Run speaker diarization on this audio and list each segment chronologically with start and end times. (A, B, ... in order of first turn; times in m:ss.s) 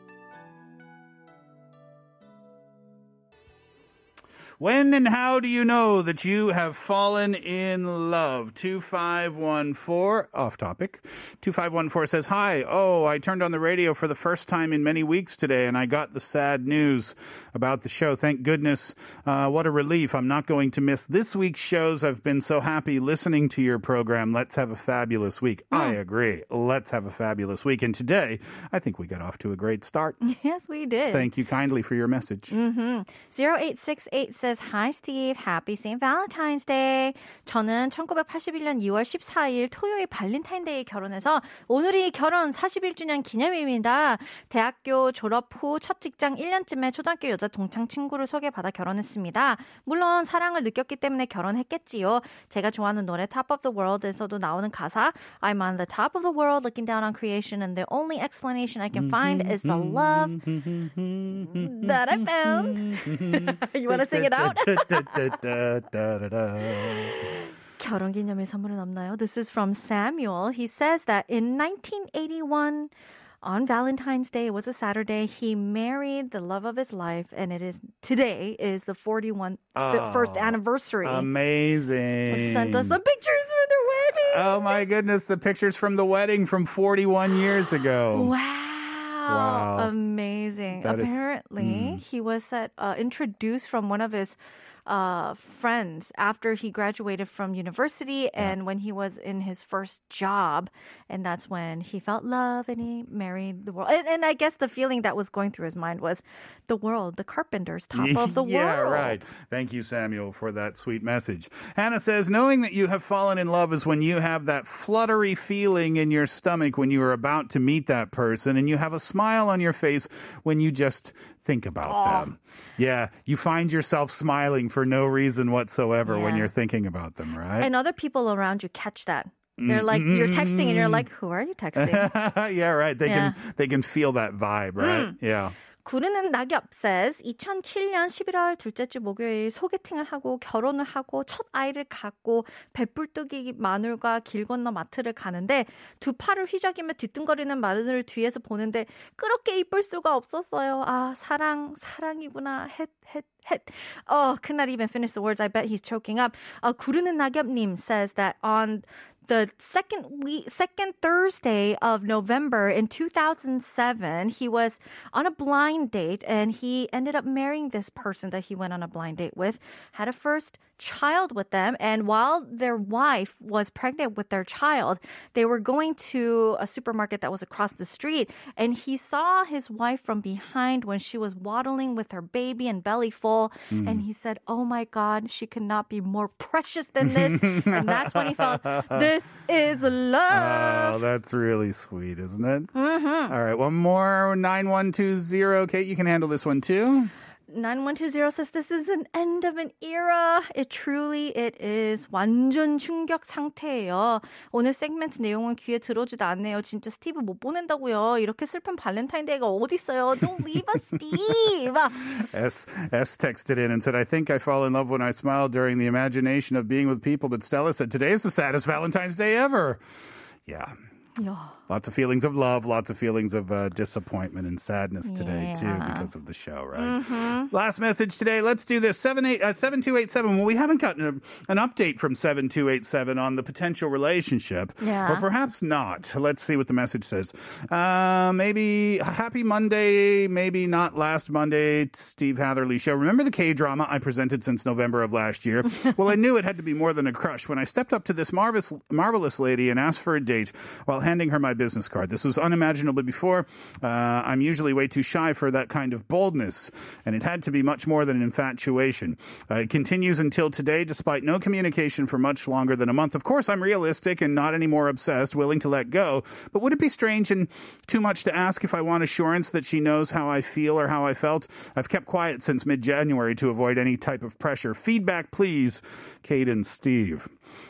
0:04.6-0:30.2 A
0:30.2-0:31.3 B
0:31.1-0:32.5 A
0:32.5-1:00.4 B
0:58.9-1:07.2 A
1:01.5-1:05.4 B
1:06.8-1:21.3 B
1:19.7-1:23.0 A
1:22.3-1:24.8 B
1:24.3-1:28.3 A
1:28.1-1:49.2 B
1:29.3-1:29.9 A
1:30.8-1:32.0 A
1:47.9-2:07.7 A
2:01.8-2:02.3 B
2:06.0-2:06.5 B
2:07.6-2:12.2 B
2:09.6-2:11.0 A
2:11.8-2:15.5 A
2:13.0-2:13.4 B
2:14.8-2:15.2 B
2:15.8-3:11.0 B
3:03.7-3:04.0 A
3:07.0-3:09.1 A
3:10.3-3:12.7 A
3:12.7-3:13.3 B
3:13.3-3:17.1 A
3:17.5-3:32.0 B
3:32.1-3:39.8 A
3:40.4-3:40.7 A
3:41.2-3:41.6 B
3:41.7-4:37.3 A
3:45.0-3:46.1 B
3:46.7-3:47.5 B
3:54.8-3:55.3 B